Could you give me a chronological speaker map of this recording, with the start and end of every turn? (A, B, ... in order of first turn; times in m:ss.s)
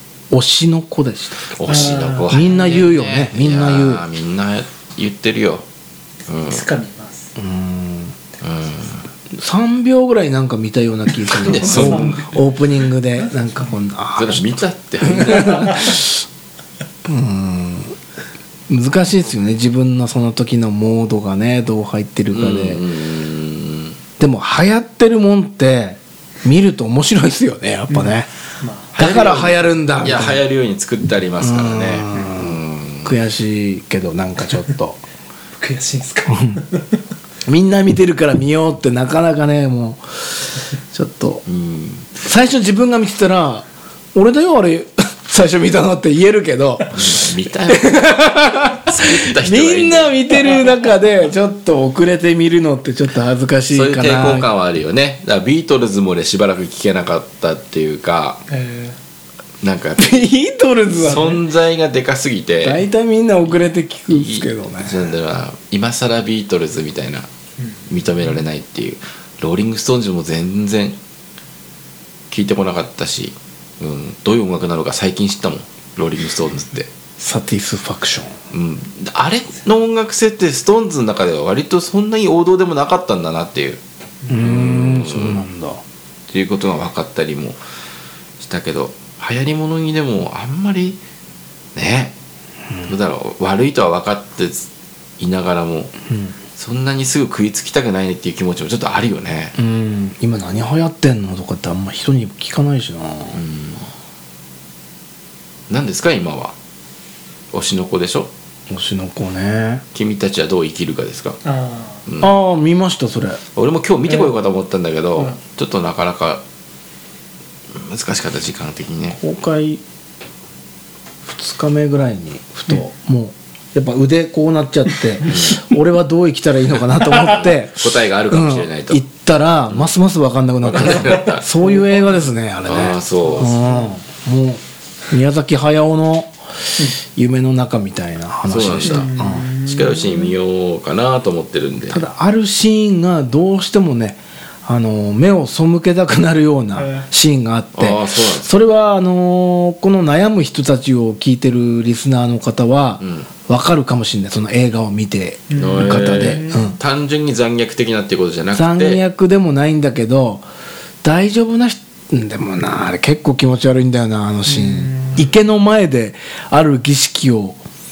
0:00.3-0:04.0 A
0:01.5-0:05.6 B
0:01.7-0:02.4 C
0:06.3-0:06.6 B
0:06.5-0:07.3 C
0:07.4-0:08.2 A
0:08.4-0:09.0 B
0:09.3-0:14.5 A
0:11.4-0:12.4 B
0:11.6-0:12.3 C
0:13.2-0:13.7 C
0:14.2-0:16.0 B
0:15.0-0:16.2 A
0:17.0-0:18.0 A
0:18.7-0:22.8 A
0:22.3-0:24.0 B
0:24.2-0:28.3 A
0:27.9-0:28.9 C
0:28.9-0:33.2 B
0:29.0-0:30.4 A
0:31.4-0:35.0 A
0:35.6-0:37.0 C
0:36.3-0:36.6 A
0:37.5-0:41.4 A
0:41.5-0:42.1 B
0:42.2-0:54.5 A
0:46.9-0:50.2 B
0:53.7-0:58.4 B
0:58.5-0:59.0 C
0:59.6-1:00.2 B
1:00.0-1:01.4 A
1:01.0-1:02.8 B
1:02.6-1:05.0 A
1:04.1-1:07.3 B
1:07.9-1:11.0 B
1:12.3-1:16.9 B
1:17.2-1:18.4 A
1:18.5-1:23.8 B
1:24.3-1:25.8 A
1:24.3-1:25.5 B
1:26.3-1:27.6 B
1:28.4-1:31.0 B
1:31.8-1:32.1 B
1:32.9-1:35.9 B
1:36.6-1:39.6 B
1:39.6-1:43.4 A
1:43.3-1:43.9 B
1:45.7-1:46.6 B
1:47.5-1:48.3 B
1:48.7-1:49.8 A
1:49.9-1:51.4 B
1:51.4-1:52.0 C
1:52.1-1:52.3 B
1:52.2-1:53.4 A
1:53.6-1:56.4 B
1:57.7-1:59.2 B
1:59.2-1:59.8 A
2:01.2-2:19.4 A
2:05.3-2:05.6 B
2:07.1-2:09.0 B
2:10.6-2:11.5 B
2:11.6-2:12.3 C
2:12.6-2:13.6 B
2:13.2-2:13.9 C
2:18.5-2:22.0 B
2:18.8-2:20.3 C
2:21.9-2:36.8 A
2:26.8-2:27.1 C
2:27.8-2:28.5 B
2:33.0-2:33.3 B
2:35.5-2:36.7 C
2:35.6-2:39.0 B
2:38.5-2:40.4 A
2:41.0-2:47.6 A
2:44.5-2:45.2 C